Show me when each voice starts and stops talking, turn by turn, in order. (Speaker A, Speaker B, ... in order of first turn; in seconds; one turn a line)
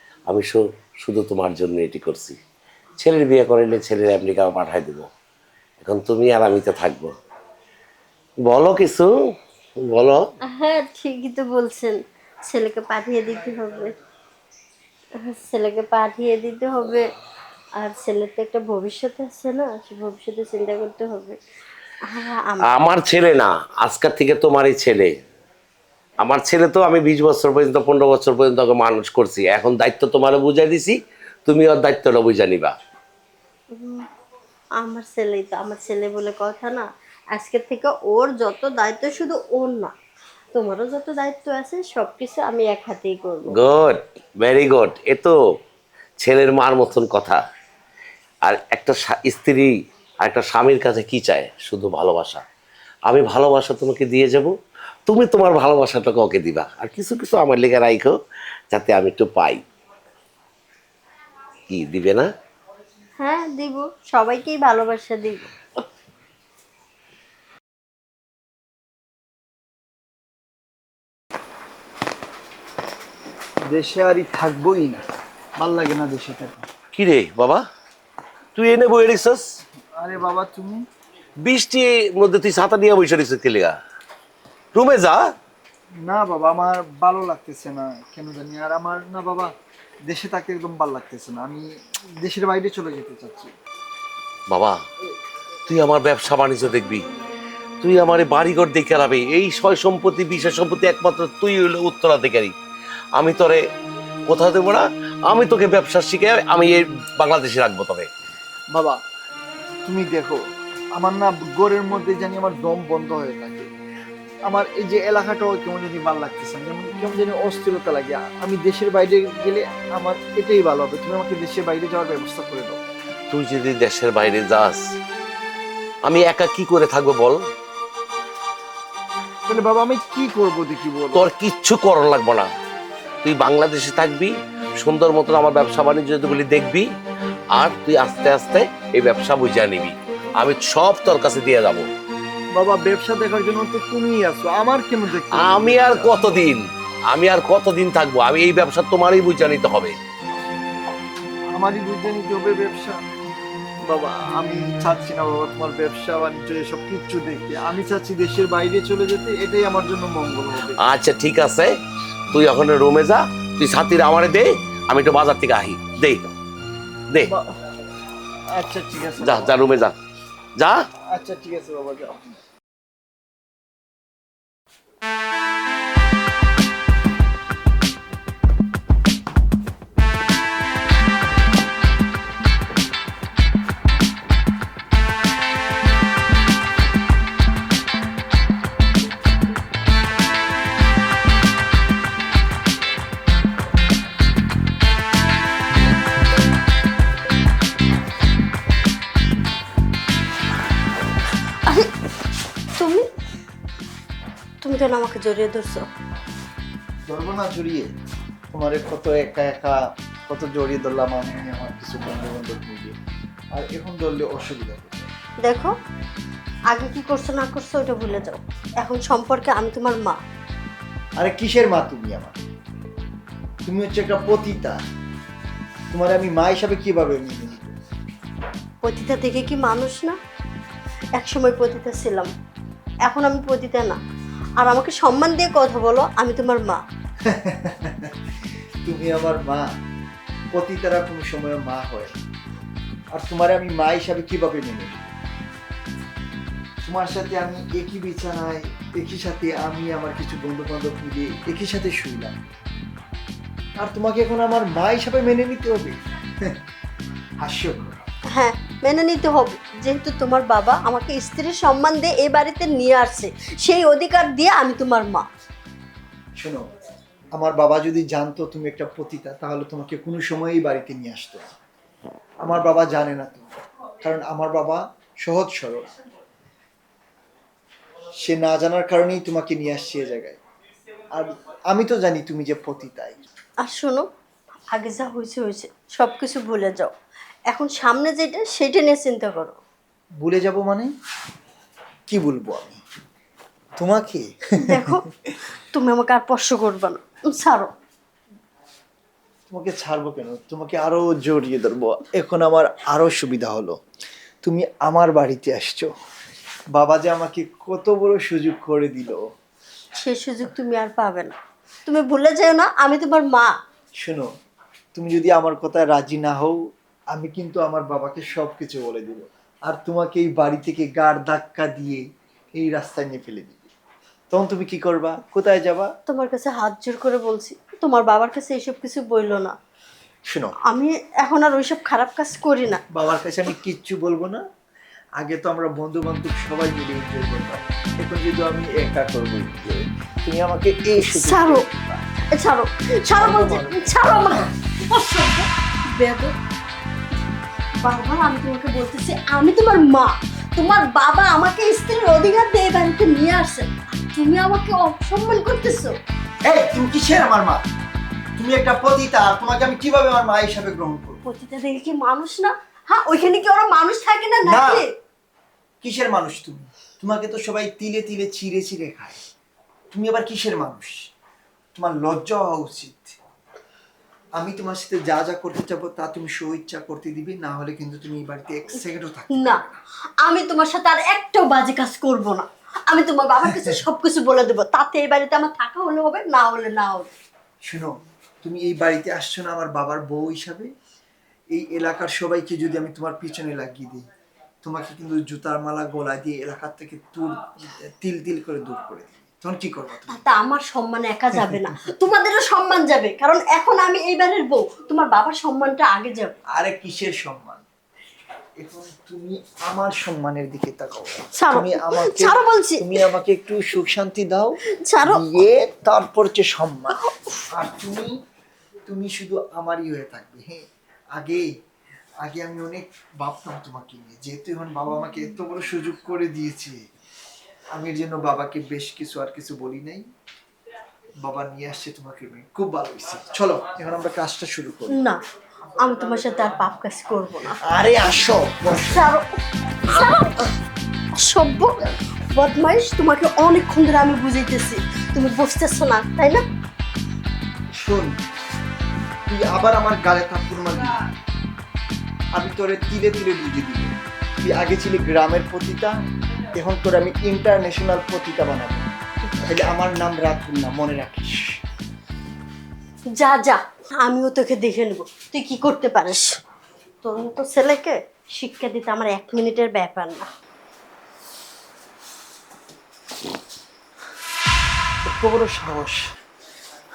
Speaker A: 0.3-2.4
Speaker A: 3.0-5.1
Speaker A: 5.8-7.1
Speaker A: 8.5-9.2
Speaker A: 9.8-10.2
Speaker B: 10.5-13.9
Speaker B: 15.2-17.1
Speaker B: 17.8-21.4
Speaker B: 22.0-22.7
Speaker A: 22.7-25.1
Speaker A: 26.2-32.7
Speaker B: 33.7-34.1
Speaker B: 34.8-40.0
Speaker B: 40.5-43.6
Speaker A: 43.5-45.4
Speaker A: 46.2-47.4
Speaker A: 48.4-52.4
Speaker A: 53.1-54.5
Speaker A: 55.1-58.2
Speaker A: 58.7-59.6
Speaker A: 61.7-62.3
Speaker B: 63.2-65.5
Speaker C: 73.7-75.0
Speaker C: 75.6-76.7
Speaker A: 76.9-77.6
Speaker A: 78.6-79.4
Speaker C: 80.0-80.8
Speaker A: 81.4-83.8
Speaker A: 84.7-85.3
Speaker C: 86.0-89.5
Speaker C: 90.1-93.5
Speaker A: 94.5-94.8
Speaker A: 95.7-97.1
Speaker A: 97.8-102.5
Speaker A: 103.2-103.6
Speaker A: 104.3-108.1
Speaker C: 108.7-109.0
Speaker C: 109.8-110.4
Speaker C: 111.0-113.7
Speaker C: 114.5-122.8
Speaker A: 123.3-124.9
Speaker A: 126.0-127.4
Speaker C: 129.5-131.3
Speaker A: 131.2-132.5
Speaker A: 133.2-136.9
Speaker A: 137.5-141.9
Speaker C: 142.5-146.4
Speaker A: 145.3-150.0
Speaker C: 151.5-153.1
Speaker C: 153.9-160.8
Speaker A: 160.8-161.7
Speaker A: 162.3-166.2
Speaker C: 167.3-167.5
Speaker C: 168.5-169.6
Speaker A: 169.2-170.0
Speaker A: 170.6-170.8
Speaker C: 171.1-172.4
Speaker B: 201.7-201.9
Speaker B: 202.8-203.1
Speaker B: 204.6-205.9
Speaker C: 207.1-207.9
Speaker C: 208.5-213.0
Speaker C: 213.5-215.1
Speaker B: 215.4-215.7
Speaker B: 216.7-220.2
Speaker C: 221.2-222.4
Speaker C: 223.7-224.8
Speaker C: 225.9-227.8
Speaker B: 228.8-230.2
Speaker B: 231.2-232.3
Speaker B: 233.1-234.0
Speaker B: 234.6-236.8
Speaker C: 237.2-238.2
Speaker C: 238.8-239.7
Speaker C: 240.5-242.2
Speaker C: 243.1-245.1
Speaker C: 246.8-252.5
Speaker C: 253.8-256.6
Speaker C: 257.4-258.1
Speaker B: 258.3-265.3
Speaker C: 266.4-266.7
Speaker C: 267.3-271.5
Speaker C: 272.4-273.5
Speaker C: 274.0-275.9
Speaker C: 278.2-280.4
Speaker C: 281.1-283.2
Speaker B: 283.6-284.1
Speaker B: 284.7-286.9
Speaker B: 287.5-289.6
Speaker C: 290.2-290.9
Speaker C: 292.1-292.8
Speaker C: 293.8-295.0
Speaker B: 294.6-295.0
Speaker B: 295.7-297.7
Speaker C: 299.5-303.8
Speaker C: 304.4-305.9
Speaker C: 306.7-309.2
Speaker B: 310.0-313.6
Speaker C: 314.0-314.3
Speaker C: 314.9-316.6
Speaker C: 317.1-322.0
Speaker C: 322.6-323.7
Speaker C: 324.3-325.9
Speaker B: 326.1-329.6
Speaker C: 330.3-330.6
Speaker B: 330.6-332.8
Speaker C: 332.9-334.4
Speaker C: 335.2-342.1
Speaker B: 341.1-341.6
Speaker B: 342.3-346.3
Speaker C: 343.1-344.4
Speaker B: 347.8-356.0
Speaker C: 356.5-357.7
Speaker C: 358.4-361.2
Speaker B: 361.2-364.9
Speaker C: 364.5-364.8
Speaker C: 365.8-369.2
Speaker C: 369.9-371.1
Speaker C: 371.8-373.2
Speaker C: 374.4-379.8
Speaker B: 379.3-379.6
Speaker B: 380.2-387.1
Speaker C: 383.4-383.8
Speaker C: 387.7-390.7
Speaker C: 391.5-394.1
Speaker C: 394.6-400.2
Speaker B: 400.1-406.4
Speaker C: 406.5-407.6
Speaker C: 408.6-417.0
Speaker B: 411.4-413.0
Speaker B: 414.8-415.3
Speaker B: 416.9-417.5
Speaker C: 417.5-418.2
Speaker C: 418.9-421.5
Speaker C: 422.2-426.8
Speaker C: 427.7-430.1
Speaker C: 431.2-435.0
Speaker B: 434.9-435.2
Speaker B: 435.8-437.6
Speaker C: 437.6-439.1
Speaker B: 438.7-440.5
Speaker B: 441.1-446.4
Speaker C: 447.7-448.2
Speaker C: 449.3-451.1
Speaker C: 452.3-456.0
Speaker C: 456.5-461.6
Speaker B: 463.2-466.4
Speaker B: 467.0-470.3
Speaker C: 475.1-476.2